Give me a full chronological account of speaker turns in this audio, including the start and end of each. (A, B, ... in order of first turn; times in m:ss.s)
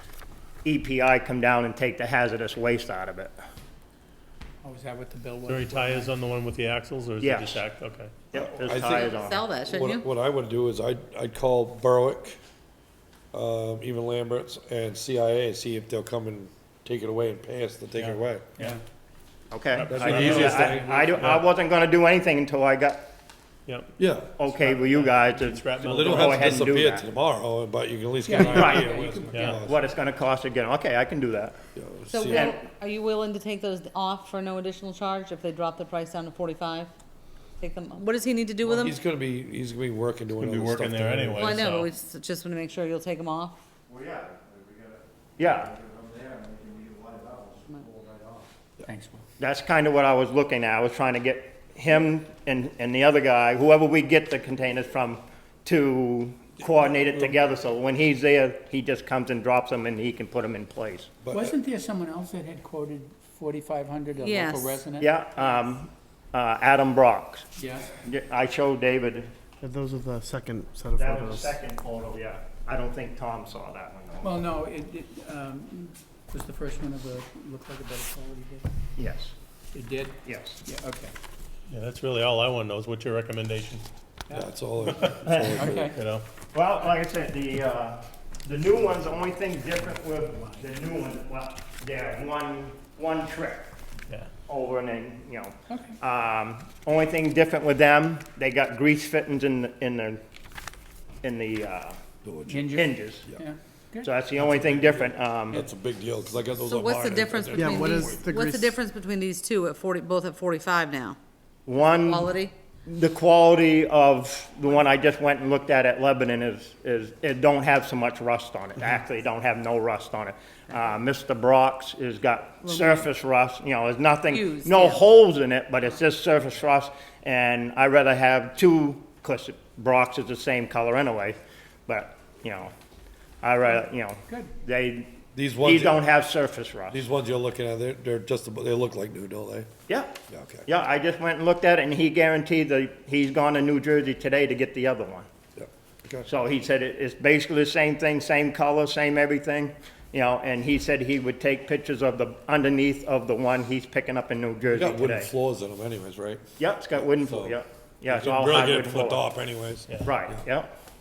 0:00.6-0:03.3 A
0:04.6-0:06.1 B
0:05.5-0:08.1 C
0:07.2-0:07.6 A
0:08.3-0:09.4 A
0:08.3-0:09.1 D
0:08.8-0:10.0 E
0:09.6-0:12.4 D
0:13.3-0:18.5 D
0:17.9-0:18.8 C
0:19.5-0:23.0 A
0:19.7-0:21.4 C
0:19.9-0:21.1 D
0:23.7-0:26.6 C
0:24.0-0:24.3 D
0:24.4-0:27.0 A
0:25.8-0:29.8 D
0:28.2-0:29.5 B
0:28.4-0:31.6 A
0:29.3-0:29.6 C
0:31.7-0:32.5 D
0:32.1-0:36.9 E
0:32.3-0:32.6 A
0:37.6-0:39.0 E
0:38.6-0:41.6 D
0:40.4-0:41.9 C
0:41.4-0:43.6 E
0:44.2-0:44.6 F
0:45.4-0:45.7 A
0:45.8-0:48.2 F
0:48.8-0:49.2 B
0:49.4-1:01.1 A
1:01.2-1:01.5 D
1:01.3-1:05.1 B
1:04.2-1:04.8 E
1:05.0-1:09.3 A
1:07.6-1:08.0 B
1:09.6-1:11.5 F
1:10.9-1:14.4 A
1:14.2-1:18.6 B
1:19.0-1:19.4 A
1:19.7-1:21.1 B
1:20.2-1:20.6 A
1:21.7-1:23.8 C
1:24.3-1:25.9 D
1:24.8-1:25.2 C
1:25.2-1:25.8 A
1:25.6-1:25.9 B
1:25.9-1:26.2 C
1:26.5-1:33.7 A
1:34.5-1:40.2 A
1:35.7-1:36.0 B
1:41.2-1:42.0 A
1:42.2-1:42.7 D
1:42.5-1:44.2 B
1:42.7-1:43.2 A
1:44.0-1:45.7 A
1:45.5-1:48.3 D
1:46.6-1:51.2 E
1:47.5-1:48.8 F
1:51.6-1:52.3 A
1:52.0-1:52.5 E
1:52.8-2:12.7 A
2:02.6-2:03.0 E
2:04.3-2:05.0 E
2:13.4-2:15.1 A
2:14.3-2:14.5 B
2:15.3-2:16.0 D
2:15.6-2:17.0 A
2:16.9-2:19.7 D
2:19.9-2:20.1 A
2:20.3-2:20.6 D
2:20.6-2:25.3 A
2:25.6-2:26.3 D
2:26.2-2:35.3 A
2:34.7-2:39.9 D
2:36.6-2:39.2 A
2:40.0-2:40.7 A